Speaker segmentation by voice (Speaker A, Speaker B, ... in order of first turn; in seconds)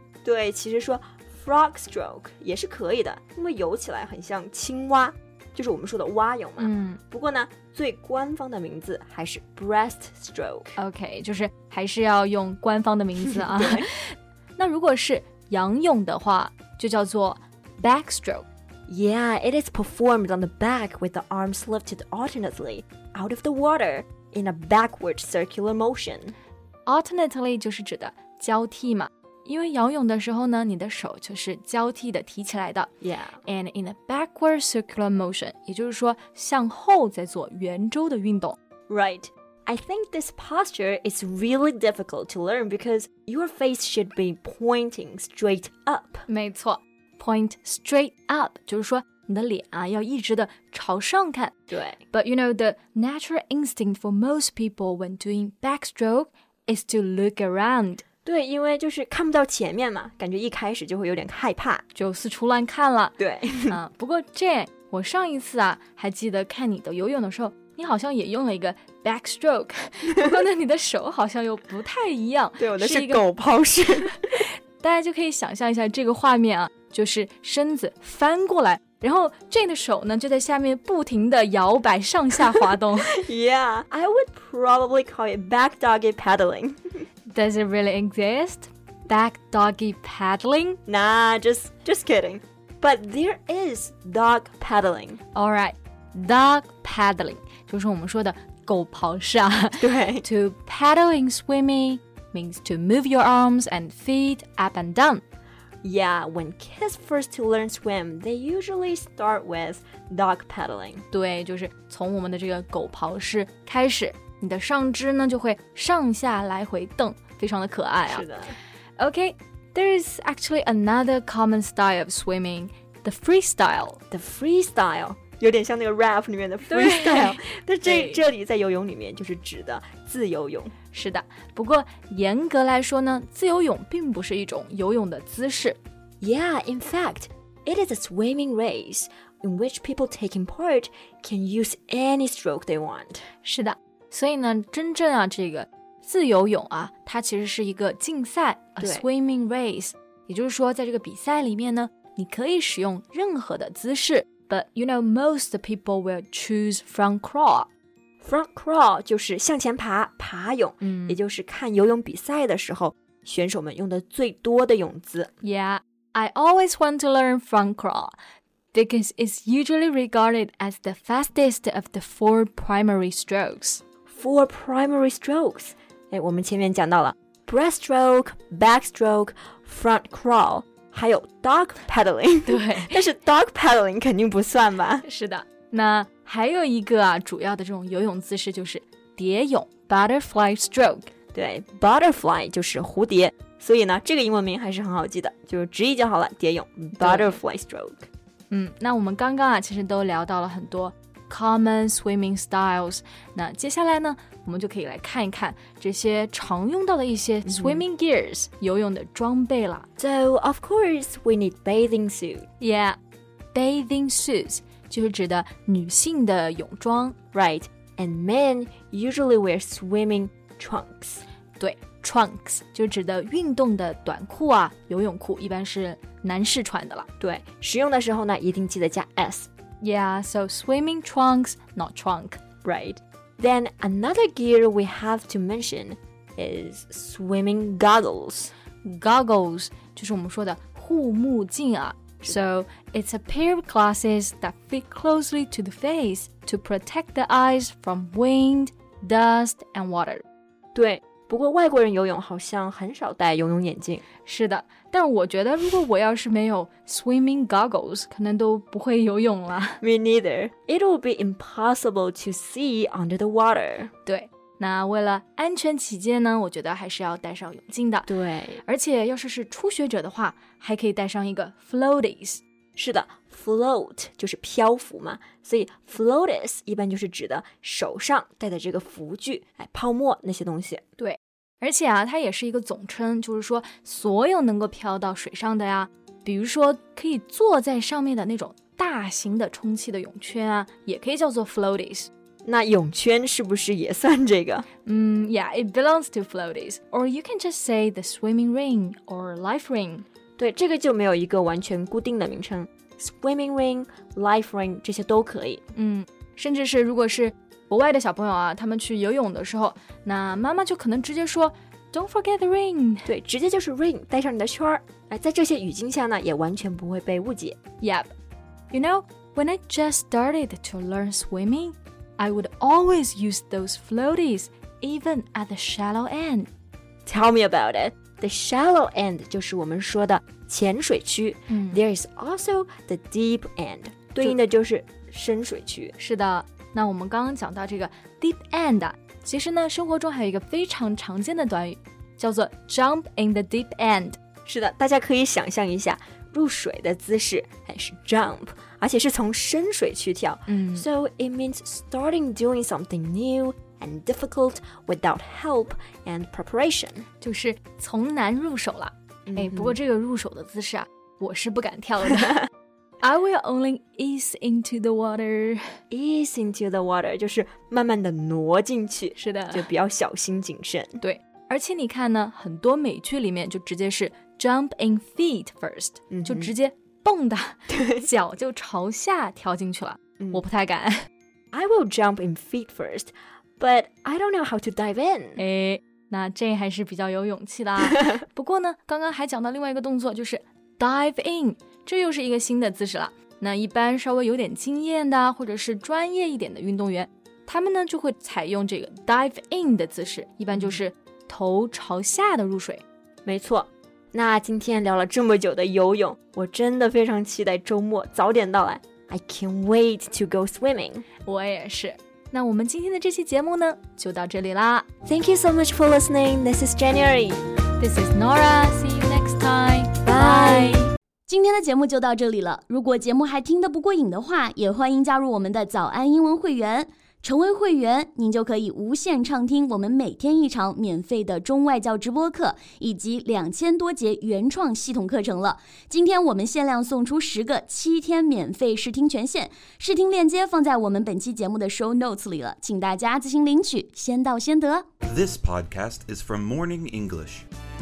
Speaker A: 0.2-10.8, 13.3-13.9, 18.9-26.4, 33.0-33.4, 38.9-46.2, 51.7-52.0, 58.2-61.8, 63.2-63.8, 72.6-74.2, 83.1-87.0, 90.8-95.2, 99.8-100.2, 105.8-111.0, 118.0-118.5, 124.1-130.7, 136.2-143.3, 148.8-149.0, 158.2-165.3, 174.1-185.0, 191.3-198.1, 207.4-207.8, 210.0-212.5, 217.3-221.2, 227.2-229.5, 232.6-238.5, 242.2-242.5, 250.7-254.0, 259.8-263.9, 268.1-268.6, 272.8-280.8, 292.4-294.6, 300.4-305.6, 313.1-317.6, 327.1-335.9, 344.4-357.0, 359.3-359.8, 365.9-371.0, 376.1-376.5, 377.7-378.0, 381.5-385.4, 403.2-411.1, 415.0-417.4, 420.0-420.9
Speaker B: 6.6-7.0, 10.8-18.5, 26.9-32.9, 33.4-38.5, 46.3-51.5, 52.1-58.0, 61.9-63.2, 63.7-73.2, 74.8-83.2, 87.3-90.8, 95.3-105.2, 111.1-118.2, 119.0-124.0, 126.7-128.2, 130.9-135.8, 143.4-157.7, 160.8-161.2, 165.4-168.1, 168.7-173.8, 182.5-183.0, 185.0-191.1, 197.0-197.4, 198.5-209.9, 212.6-213.0, 213.5-217.2, 221.6-227.1, 229.8-232.4, 238.8-250.2, 254.2-259.8, 264.1-268.1, 268.6-272.4, 281.0-292.1, 294.9-300.1, 305.7-313.1, 317.8-318.1, 318.7-326.5, 331.5-331.8, 336.0-344.2, 350.5-350.9, 357.2-362.4, 363.0-365.7, 369.1-369.7, 371.0-381.1, 385.4-402.8, 411.2-414.9, 417.8-420.9
Speaker C: 421.3-444.9
Speaker D: 445.0-447.4